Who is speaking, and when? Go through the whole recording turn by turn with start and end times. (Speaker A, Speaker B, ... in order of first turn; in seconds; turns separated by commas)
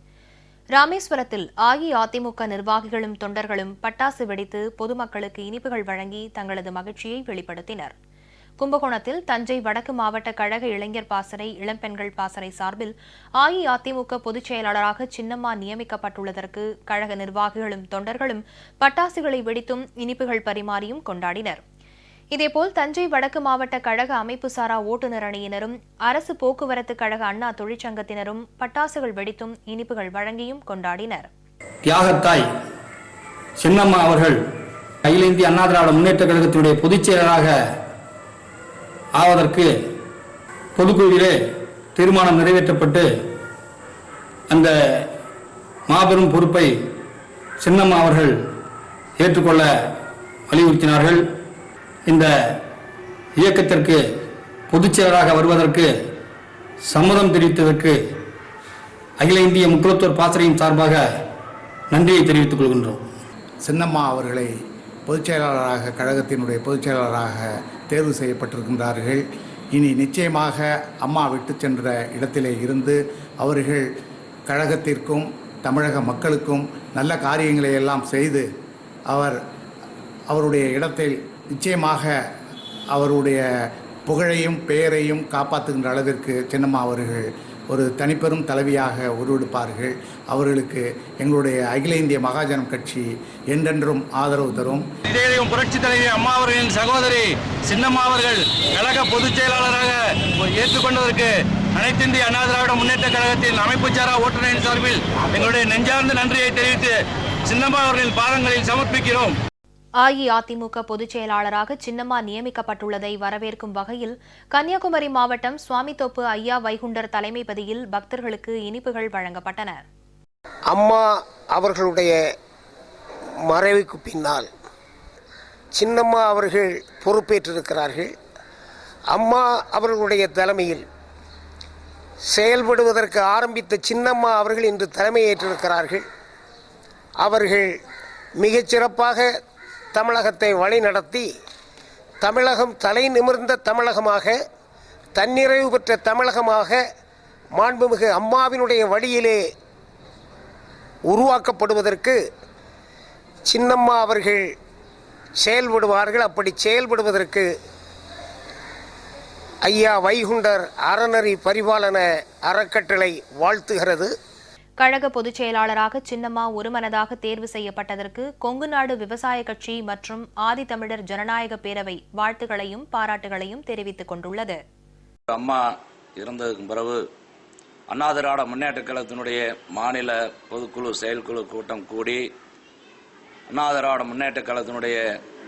Speaker A: 0.7-7.9, Speaker A: 8.6-21.6, Speaker A: 22.3-31.3, Speaker B: 31.8-32.5, Speaker B: 33.6-34.4, Speaker B: 35.0-37.5, Speaker B: 39.1-39.7, Speaker B: 40.8-41.4, Speaker B: 42.0-43.1, Speaker B: 44.5-45.1, Speaker B: 45.9-46.8, Speaker B: 47.6-48.4, Speaker B: 49.2-49.7, Speaker B: 50.5-51.2, Speaker B: 52.1-52.5, Speaker B: 53.4-54.0, Speaker B: 54.7-55.9, Speaker B: 56.8-58.0, Speaker B: 59.2-61.0, Speaker B: 61.9-63.0, Speaker C: 63.6-64.5, Speaker C: 65.0-73.8, Speaker C: 74.5-78.5, Speaker C: 79.1-79.3, Speaker C: 80.3-82.1, Speaker C: 82.9-83.4, Speaker C: 84.0-94.8, Speaker D: 95.1-109.4, Speaker A: 110.0-119.8, Speaker E: 120.7-122.2, Speaker E: 123.5-124.5, Speaker E: 125.7-128.1, Speaker E: 129.1-130.8, Speaker E: 132.3-136.0, Speaker E: 137.2-137.8, Speaker E: 138.4-139.3, Speaker E: 139.9-141.3, Speaker E: 142.2-144.4, Speaker E: 145.1-146.8, Speaker E: 147.5-149.4, Speaker E: 151.1-152.2, Speaker E: 153.4-154.5, Speaker E: 155.4-157.5, Speaker E: 159.6-164.1, Speaker A: 164.8-174.6, Speaker F: 175.3-175.6, Speaker F: 176.2-177.0, Speaker F: 177.9-182.2, Speaker F: 183.5-185.0